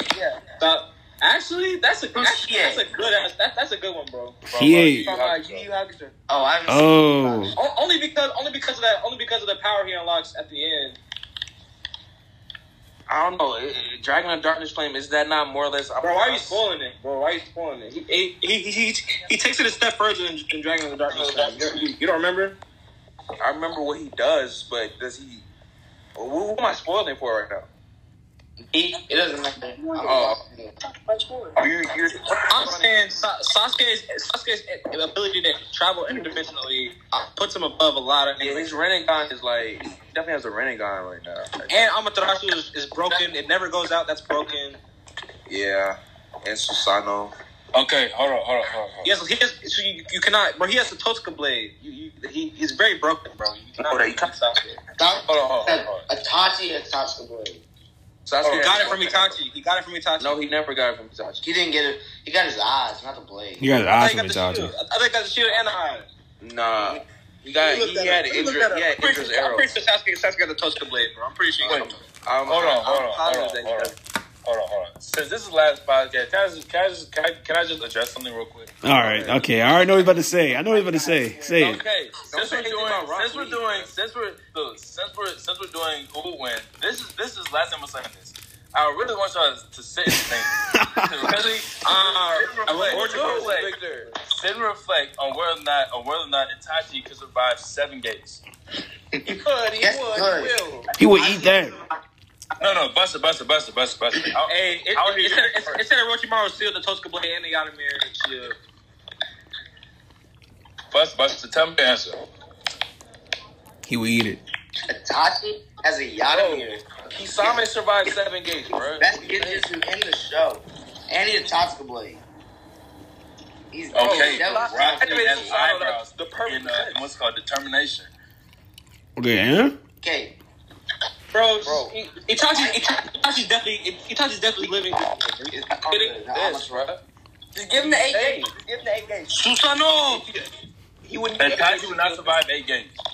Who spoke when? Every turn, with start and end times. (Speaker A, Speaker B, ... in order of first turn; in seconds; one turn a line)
Speaker A: 0.1-0.6
Speaker B: 0.6-4.4
Speaker C: 2.1-3.0
Speaker D: 4.5-5.7
Speaker E: 4.5-5.1
Speaker A: 4.9-6.2
Speaker C: 6.3-7.6
Speaker E: 6.7-7.5
Speaker B: 7.6-11.0
Speaker F: 13.1-16.6
Speaker B: 16.0-22.6
Speaker F: 23.4-25.5
Speaker F: 26.2-27.7
Speaker C: 28.7-30.7
Speaker B: 29.8-30.3
Speaker F: 30.0-30.4
Speaker B: 30.9-31.6
Speaker F: 31.6-33.3
Speaker B: 32.5-38.8
Speaker F: 38.4-41.9
Speaker B: 41.7-44.8
Speaker F: 45.5-47.4
Speaker D: 47.7-49.1
Speaker B: 49.0-54.6
Speaker F: 53.8-54.8
Speaker C: 55.0-57.6
Speaker D: 55.3-56.0
Speaker F: 58.3-59.4
Speaker D: 58.4-58.7
Speaker B: 58.5-60.4
Speaker F: 60.2-61.5
Speaker C: 61.4-63.7
Speaker E: 63.6-64.7
Speaker B: 63.9-66.1
Speaker F: 66.4-69.7
Speaker C: 66.8-67.0
Speaker B: 67.6-71.9
Speaker F: 71.6-73.9
Speaker D: 71.6-71.9
Speaker D: 72.5-78.8
Speaker E: 78.8-81.8
Speaker F: 79.0-79.4
Speaker A: 80.7-81.6
Speaker D: 81.6-98.4
Speaker F: 82.3-83.9
Speaker E: 90.1-91.2
Speaker B: 91.8-93.6
Speaker F: 92.8-94.1
Speaker F: 99.4-100.9
Speaker C: 99.8-100.6
Speaker E: 101.0-101.8
Speaker A: 101.1-101.8
Speaker D: 102.6-105.8
Speaker B: 104.5-108.6
Speaker D: 110.9-112.2
Speaker E: 113.9-114.4
Speaker C: 114.9-116.8
Speaker F: 116.3-119.7
Speaker C: 118.9-122.2
Speaker C: 123.7-125.5
Speaker D: 123.9-128.1
Speaker F: 124.0-127.0
Speaker E: 129.2-129.8
Speaker C: 130.0-130.4
Speaker B: 131.3-136.6
Speaker F: 131.6-131.9
Speaker C: 135.5-136.9
Speaker F: 136.4-137.0
Speaker A: 137.6-139.4
Speaker F: 137.7-138.5
Speaker B: 139.3-140.5
Speaker F: 141.0-142.4
Speaker D: 141.4-143.0